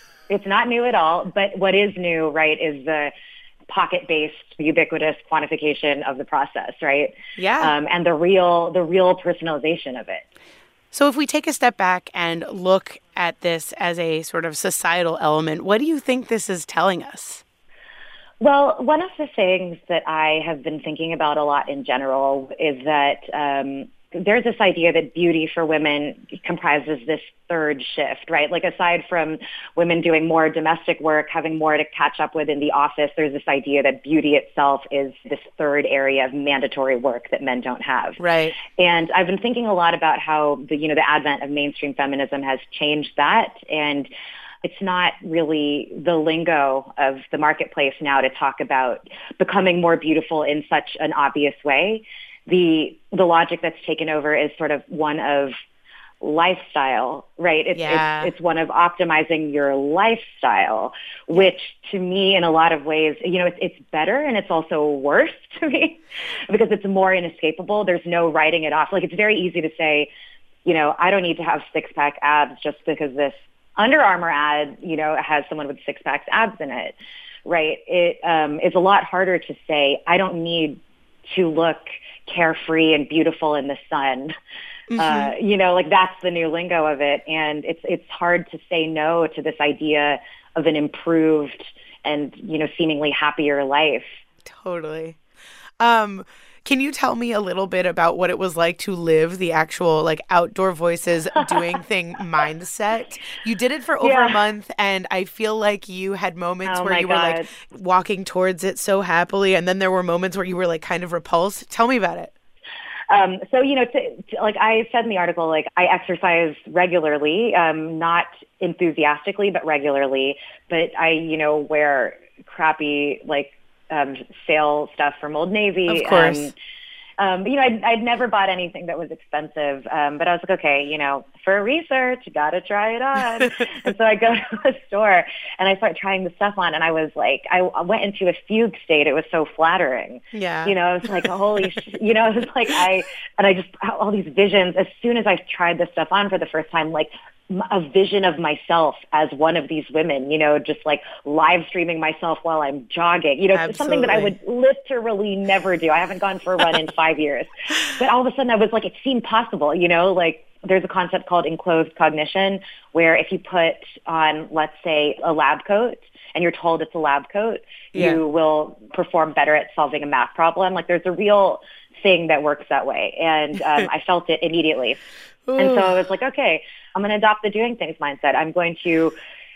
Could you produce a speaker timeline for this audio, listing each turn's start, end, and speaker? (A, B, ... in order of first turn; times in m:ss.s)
0:00.3-0:03.1 A
0:03.7-0:10.2 A
0:07.4-0:07.7 B
0:10.9-0:17.4 B
0:18.4-0:38.2 A
0:38.2-0:38.6 B
0:38.7-0:44.1 A
0:44.6-0:55.6 A
0:56.2-1:10.1 A
0:57.7-0:58.3 B
1:10.6-1:16.9 A
1:17.4-1:24.3 A
1:24.9-1:25.3 B
1:25.0-1:34.2 A
1:34.4-1:35.2 B
1:35.8-1:52.3 B
1:44.0-1:44.4 A
1:46.6-1:47.5 A
1:53.1-2:06.5 A
2:05.9-2:06.5 B
2:07.2-2:55.0 A
2:13.4-2:13.6 B
2:20.3-2:21.3 B
2:33.5-2:34.3 B
2:47.9-2:48.2 B
2:55.5-2:56.0 B
2:55.6-2:59.1 A